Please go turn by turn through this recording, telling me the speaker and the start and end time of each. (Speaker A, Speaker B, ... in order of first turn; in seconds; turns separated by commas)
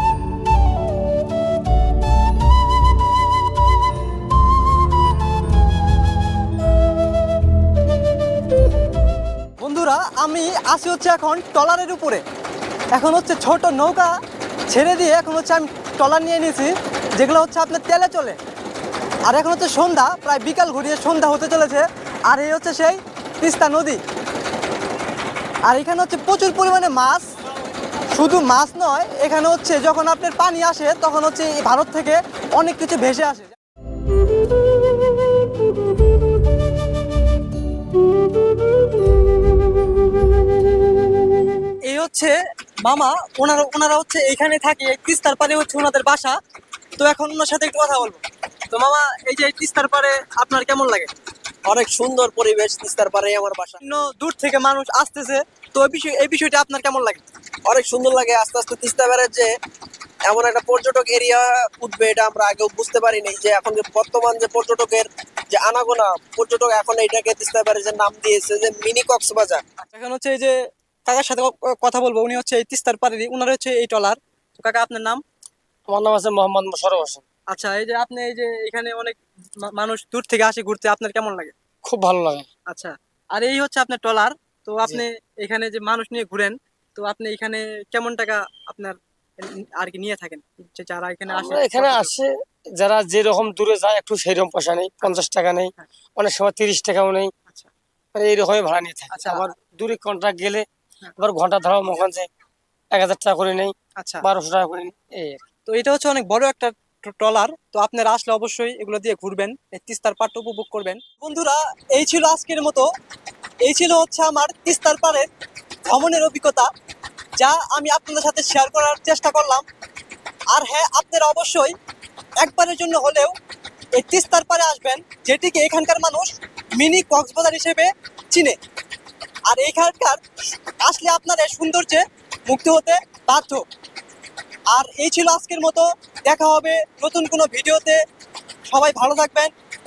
Speaker A: 9.6-12.2, Speaker A: 12.9-14.1, Speaker A: 14.7-18.4, Speaker A: 19.2-24.0, Speaker A: 25.7-27.3, Speaker A: 28.1-33.5, Speaker A: 41.9-46.4, Speaker A: 47.0-51.1, Speaker B: 51.7-53.8, Speaker A: 53.8-57.2, Speaker B: 57.7-59.5, Speaker B: 60.3-69.6, Speaker A: 69.8-75.2, Speaker C: 75.9-77.2, Speaker A: 77.5-81.5, Speaker C: 81.8-82.5, Speaker A: 82.7-92.1, Speaker C: 91.3-97.3, Speaker C: 98.1-100.7, Speaker A: 99.1-99.4, Speaker C: 101.2-102.3, Speaker C: 102.9-105.4, Speaker A: 104.0-104.2, Speaker A: 105.7-112.9, Speaker A: 113.6-115.3, Speaker A: 115.9-116.7, Speaker A: 117.4-119.7, Speaker A: 120.5-121.8, Speaker A: 122.4-123.3, Speaker A: 123.9-128.6, Speaker A: 129.5-130.2, Speaker A: 130.8-133.6, Speaker A: 134.7-138.0, Speaker A: 138.7-139.5